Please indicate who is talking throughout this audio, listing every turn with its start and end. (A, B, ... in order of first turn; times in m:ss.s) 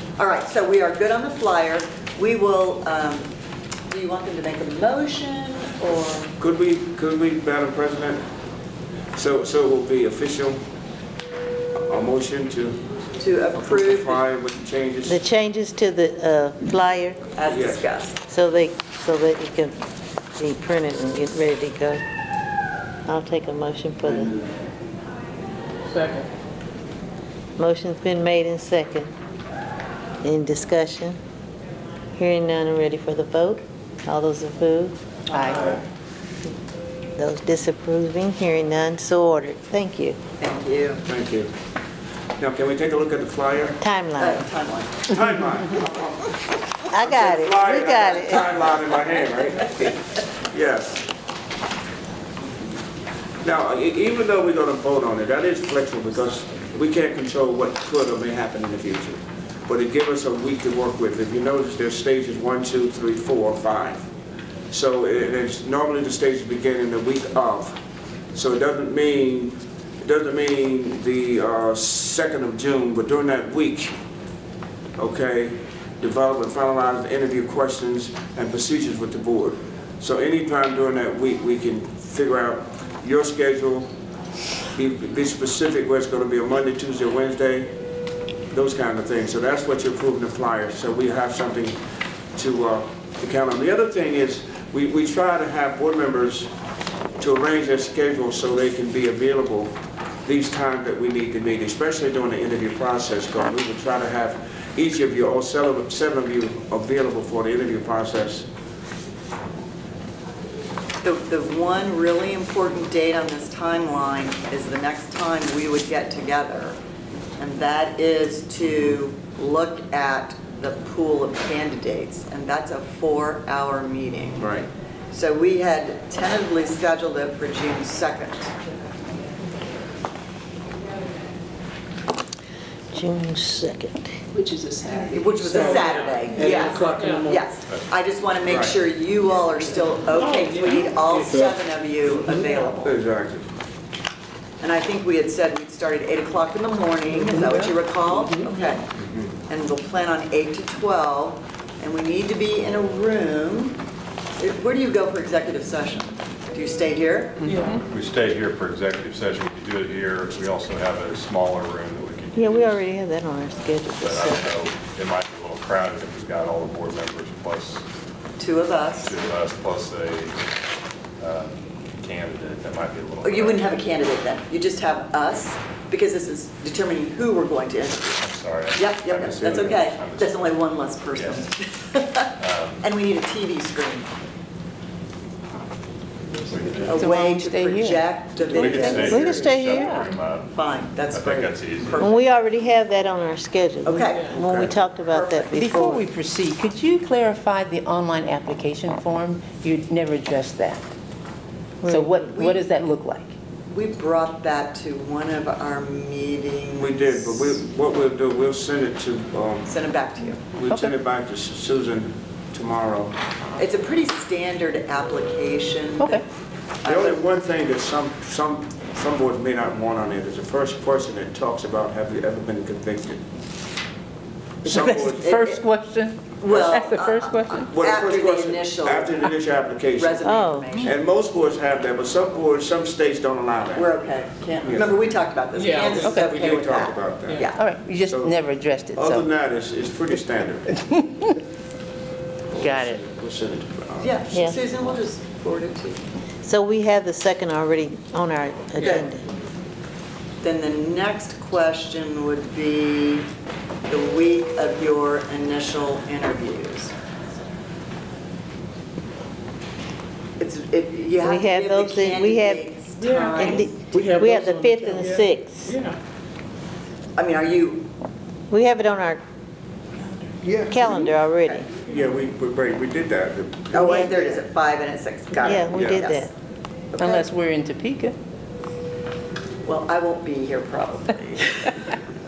0:00.2-0:03.3 A
0:03.9-0:06.3 A
0:06.4-0:08.2 B
0:09.1-0:10.6 B
0:11.8-0:12.8 B
0:13.2-0:14.2 A
0:13.5-0:15.2 B
0:15.0-0:17.2 C
0:17.4-0:18.2 A
0:17.5-0:17.8 B
0:18.3-0:19.7 C
0:20.4-0:22.0 C
0:23.0-0:24.3 C
0:25.9-0:26.3 D
0:27.6-0:29.1 C
0:30.2-0:31.2 C
0:32.2-0:35.8 C
0:35.3-0:35.7 E
0:37.2-0:40.2 C
0:40.4-0:41.0 A
0:41.0-0:41.5 B
0:42.4-0:43.8 B
0:43.8-0:44.5 C
0:44.2-0:45.1 A
0:45.1-0:51.0 B
0:46.9-0:48.6 C
0:53.4-1:04.0 B
1:04.7-1:07.8 B
1:08.3-1:13.9 B
1:15.0-1:23.9 B
1:24.7-1:27.7 B
1:28.5-1:31.8 B
1:32.3-1:36.5 B
1:37.2-1:39.7 B
1:40.2-1:48.5 B
1:51.0-1:56.8 A
1:57.4-2:04.5 A
2:04.4-2:04.7 B
2:05.1-2:08.5 A
2:12.9-2:14.2 C
2:14.3-2:16.6 E
2:15.1-2:23.0 A
2:15.5-2:17.4 D
2:18.5-2:18.8 B
2:20.1-2:21.5 D
2:22.8-2:23.5 B
2:24.6-2:28.8 A
2:27.3-2:27.6 D
2:29.5-2:33.8 A
2:34.4-2:37.5 A
2:37.4-2:37.8 D
2:37.8-2:42.8 F
2:42.4-2:44.5 C
2:44.0-2:47.8 F
2:48.4-2:49.1 A
2:49.0-2:50.3 F
2:51.2-2:53.8 F
2:53.2-2:58.2 A
2:58.2-3:00.5 F
2:58.7-3:04.1 A
3:01.1-3:01.4 F
3:02.3-3:02.9 F
3:06.5-3:06.9 F
3:06.8-3:09.8 A
3:06.9-3:08.1 E
3:08.4-3:10.6 F
3:09.0-3:10.0 C
3:09.7-3:10.0 E
3:10.5-3:12.4 A
3:11.1-3:12.0 F
3:12.0-3:16.0 C
3:13.8-3:15.6 A
3:15.5-3:20.8 E
3:21.8-3:22.2 C
3:21.8-3:23.3 E
3:22.2-3:22.6 A
3:23.7-3:27.5 A
3:26.8-3:29.7 B
3:29.7-3:30.4 A
3:30.5-3:33.1 B
3:30.7-3:31.0 E
3:33.6-3:36.2 A
3:36.0-3:36.2 E
3:36.8-3:37.2 A
3:36.8-3:43.2 B
3:44.6-3:45.4 B
3:44.6-3:47.7 E
3:45.3-3:45.6 A
3:46.4-3:49.3 A
3:46.5-3:46.8 B
3:47.7-3:50.2 B
3:50.0-3:51.0 A
3:50.2-3:50.9 C
3:50.8-3:54.0 B
3:53.7-3:57.6 A
3:54.6-3:55.0 B
3:55.5-3:56.0 D
3:55.9-3:58.4 B
3:56.0-3:56.4 E
3:57.5-3:59.3 E
3:58.9-4:00.8 B
4:02.5-4:04.8 B
4:02.6-4:03.0 E
4:04.0-4:06.0 A
4:06.4-4:09.2 C
4:08.8-4:09.1 A
4:10.4-4:13.3 A
4:13.9-4:16.9 A
4:20.4-4:23.7 A
4:21.2-4:22.7 C
4:23.0-4:26.0 D
4:23.3-4:25.8 C
4:27.2-4:27.9 A
4:28.5-4:29.2 C
4:30.4-4:31.1 B
4:30.7-4:31.7 C
4:31.8-4:34.1 B
4:33.7-4:36.3 A
4:33.7-4:34.4 C
4:35.4-4:36.3 C
4:35.7-4:36.1 B
4:36.9-4:37.3 A
4:37.0-4:38.2 E
4:39.6-4:41.9 A